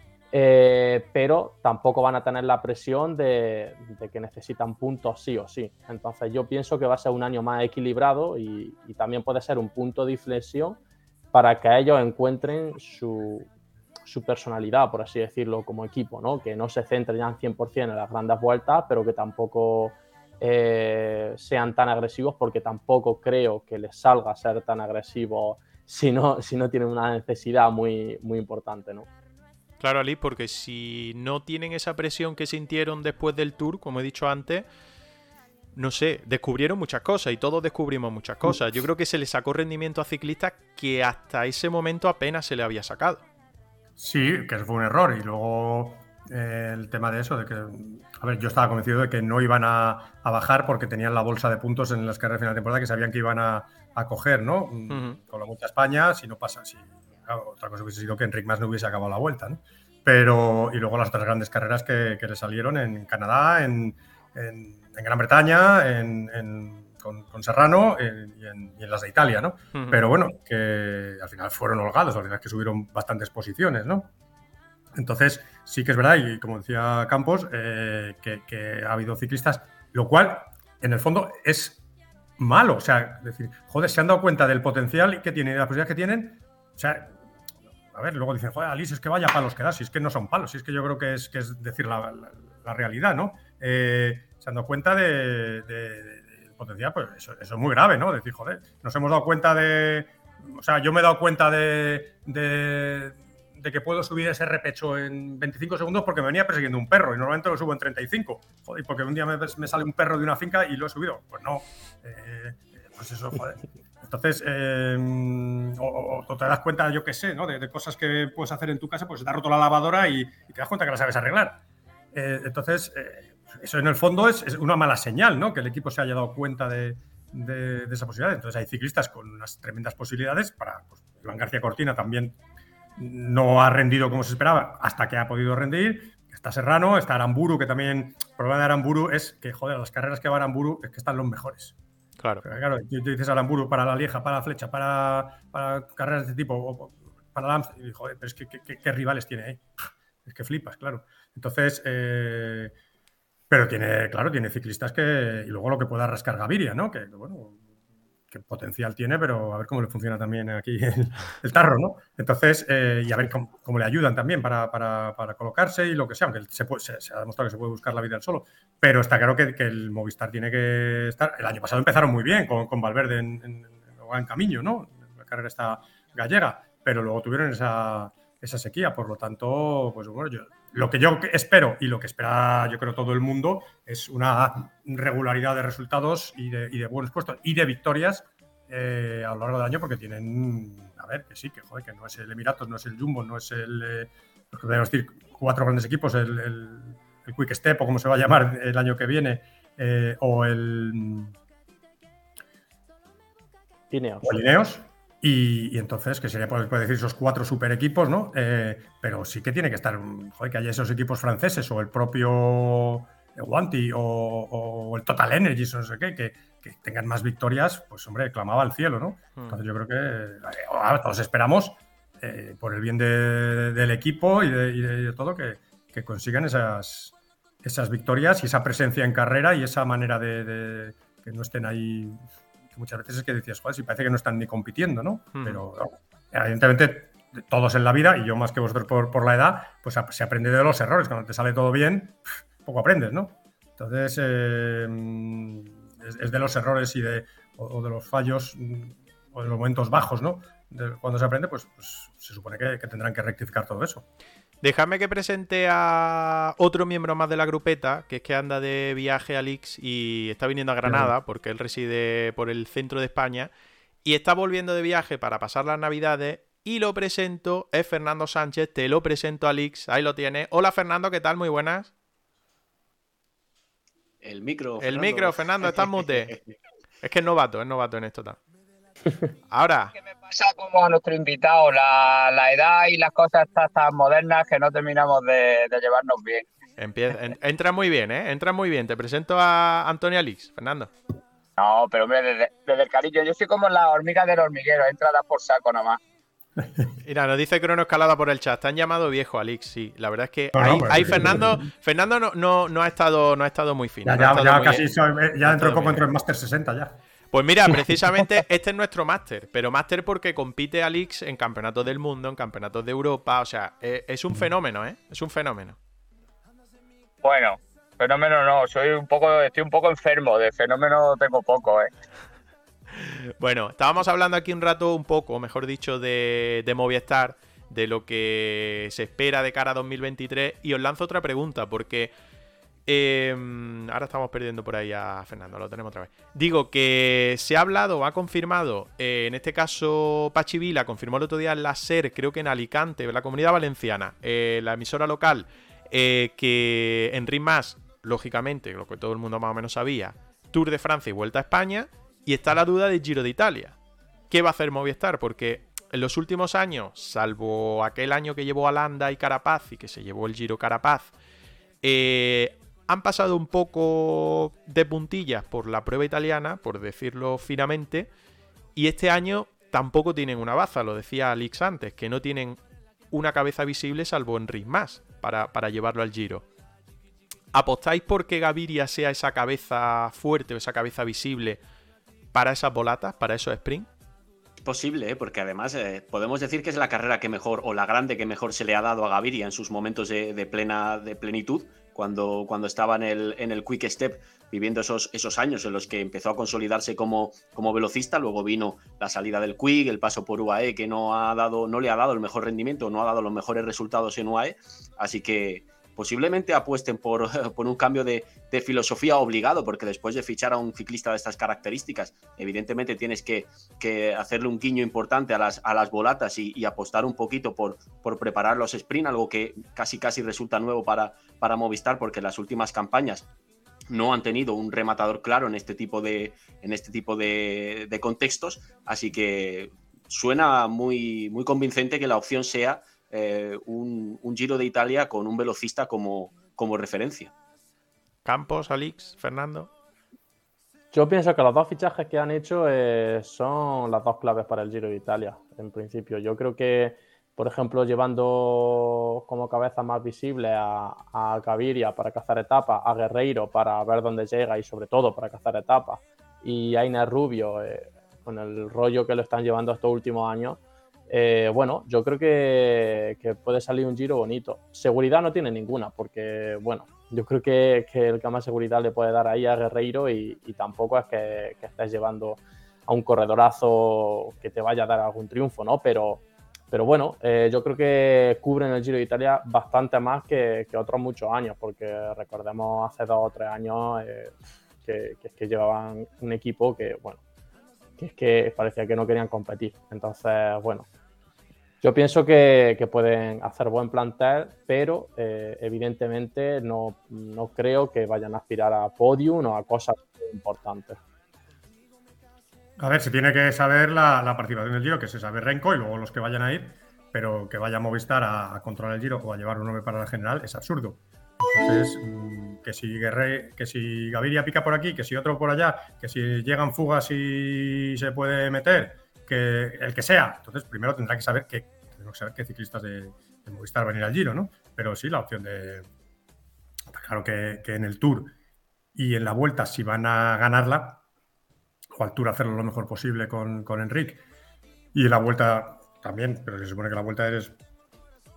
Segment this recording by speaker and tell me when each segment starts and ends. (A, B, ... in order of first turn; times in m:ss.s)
0:00.3-0:10.8 A
0:11.3-0:13.5 A
0:14.0-0:29.1 A
0:29.8-0:34.6 B
0:35.7-0:43.2 B
0:44.0-1:14.1 C
0:54.9-0:55.2 B
1:09.7-1:10.0 B
1:14.9-1:21.8 C
1:22.4-1:27.2 C
1:27.9-2:01.6 C
2:02.1-2:12.4 C
2:13.0-2:21.7 C
2:22.4-2:29.6 C
2:30.2-2:32.7 C
2:33.5-2:37.6 C
2:38.3-3:21.3 C
3:23.9-3:24.3 A
3:24.2-3:52.2 C
3:39.4-3:39.6 B
3:52.7-4:14.0 C
3:55.3-3:55.6 B
4:14.6-4:23.5 B
4:20.8-4:21.1 C
4:24.0-4:31.9 B
4:34.2-4:36.5 D
4:34.8-4:36.3 B
4:37.0-4:38.4 B
4:39.5-4:39.9 B
4:40.1-4:46.5 E
4:46.8-4:50.9 B
4:51.6-4:56.0 E
4:56.6-4:56.9 C
4:57.0-5:04.8 B
5:00.5-5:01.6 C
5:04.0-5:07.0 C
5:05.4-5:06.1 B
5:07.3-5:15.8 B
5:17.2-5:21.9 E
5:22.9-5:32.1 B
5:32.9-5:53.8 B
5:54.3-6:01.1 B
6:01.8-6:08.1 B
6:08.8-6:12.6 B
6:13.1-6:16.5 B
6:17.5-6:21.6 B
6:22.3-6:23.9 B
6:24.6-7:03.2 D
7:03.9-7:17.3 D
7:18.2-7:19.7 B
7:20.9-8:07.2 A
8:08.0-8:10.9 A
8:11.8-8:21.0 A
8:22.8-8:45.9 C
8:46.9-8:48.3 C
8:48.9-8:51.0 C
8:51.9-8:54.2 C
8:54.9-8:57.6 C